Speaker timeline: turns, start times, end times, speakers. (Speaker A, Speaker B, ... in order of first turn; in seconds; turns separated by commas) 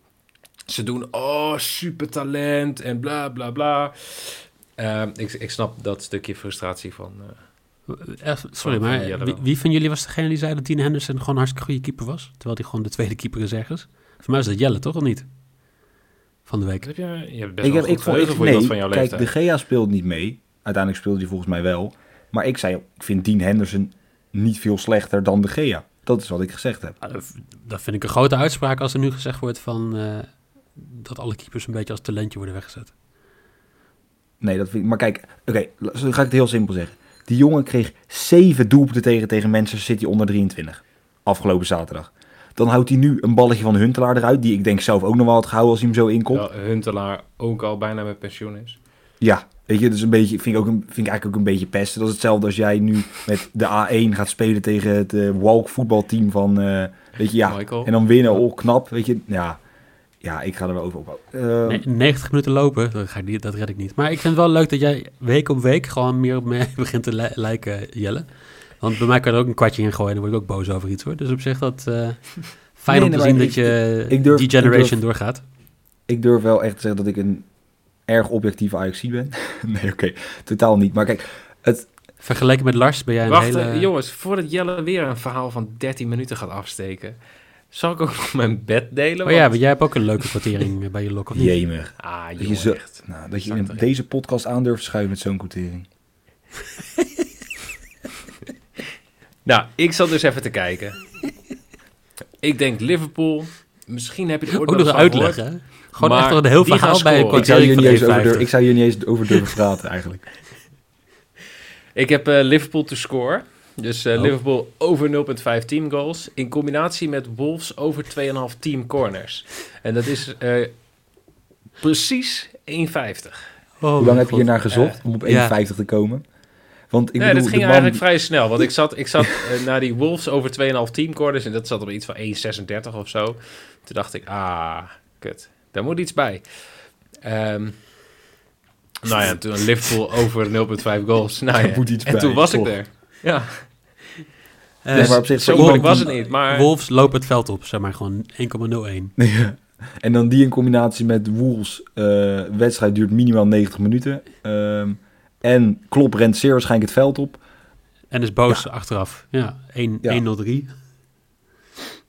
Speaker A: 0.7-7.5, Speaker B: 7.9-15.3, Speaker A: 8.6-9.4, Speaker B: 16.4-16.9, Speaker A: 16.8-19.3, Speaker C: 17.6-27.0, Speaker B: 27.0-32.9, Speaker C: 34.4-46.5, Speaker A: 46.3-48.8, Speaker C: 49.2-59.6, Speaker A: 57.4-58.4, Speaker C: 60.2-61.9, Speaker B: 61.7-75.4, Speaker C: 72.9-75.1, Speaker C: 76.1-81.9, Speaker B: 82.2-83.9, Speaker A: 83.3-87.2, Speaker A: 87.7-90.3, Speaker B: 89.2-91.6, Speaker C: 91.3-95.9, Speaker A: 92.0-93.9, Speaker A: 99.5-101.2, Speaker A: 102.4-107.7, Speaker B: 104.5-109.0, Speaker C: 107.3-110.3, Speaker A: 111.9-121.2, Speaker A: 121.8-123.7, Speaker B: 123.8-125.5, Speaker C: 124.0-126.3, Speaker A: 124.7-125.0, Speaker C: 126.8-128.1, Speaker A: 127.2-137.9, Speaker A: 139.0-144.2, Speaker B: 139.1-139.5, Speaker C: 141.6-142.8, Speaker B: 144.8-149.2, Speaker A: 144.9-146.7, Speaker C: 144.9-146.2, Speaker C: 149.2-157.4, Speaker B: 158.1-160.9